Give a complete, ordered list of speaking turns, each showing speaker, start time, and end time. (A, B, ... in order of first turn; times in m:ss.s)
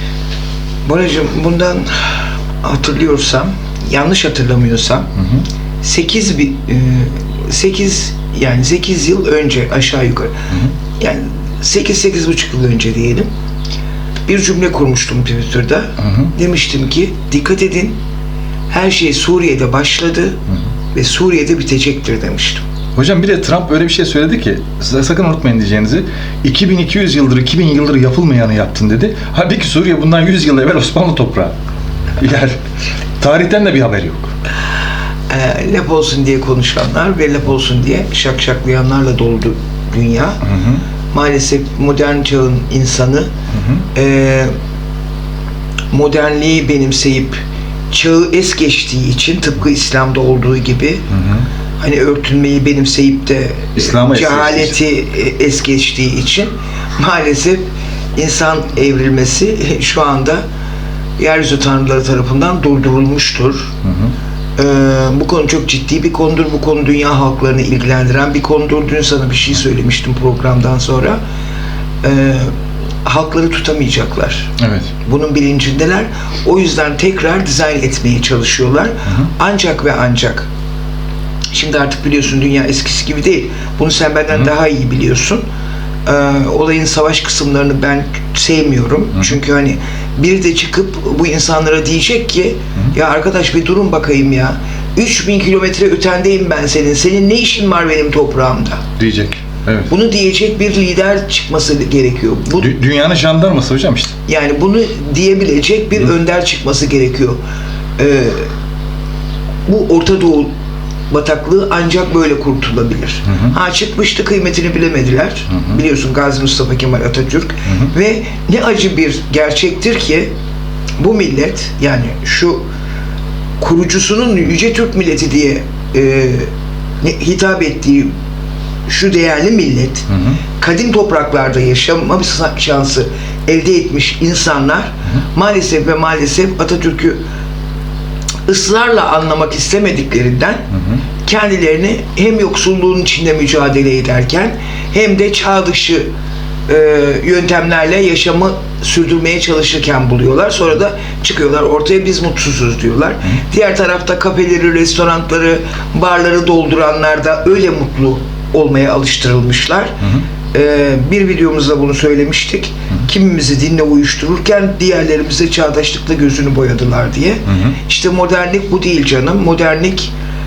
0:00.9-0:05.1 A
0:05.2-0:05.4 B
0:05.8-0:10.4 A
0:11.0-0:13.3 A
0:14.3-0:18.0 A
0:16.0-0:16.3 B
0:18.7-0:20.4 A
0:20.9-0:22.6 A
0:23.0-0:31.5 B
0:32.2-0:32.6 B
0:33.2-0:34.3 B
0:35.3-0:40.4 A
0:40.4-0:40.8 B
0:41.1-0:43.3 A
0:43.5-0:43.8 B
0:44.0-0:44.5 A
0:45.9-0:51.0 A
0:51.1-0:51.4 B
0:51.8-1:00.4 A
0:53.8-0:54.7 B
1:01.2-1:03.7 A
1:03.8-1:04.1 B
1:04.6-1:11.2 A
1:12.0-1:12.5 A
1:13.0-1:14.5 A
1:14.6-1:14.9 B
1:15.0-1:20.5 A
1:21.5-1:25.4 A
1:26.1-1:38.8 A
1:39.0-1:39.9 B
1:39.9-1:42.7 A
1:42.6-1:44.2 B
1:44.3-1:47.4 A
1:48.0-1:48.5 A
1:49.7-1:50.5 A
1:51.1-2:00.3 A
1:53.3-1:53.5 B
1:55.5-1:55.8 B
1:57.7-1:57.9 B
2:01.0-2:02.7 A
2:03.6-2:06.5 A
2:07.0-2:08.1 A
2:08.9-2:10.1 A
2:10.1-2:10.4 B
2:10.6-2:17.2 A
2:18.5-2:20.7 A
2:20.7-2:21.0 B
2:21.2-2:26.1 A
2:26.7-2:40.0 A
2:40.5-2:50.1 A
2:47.5-2:47.8 B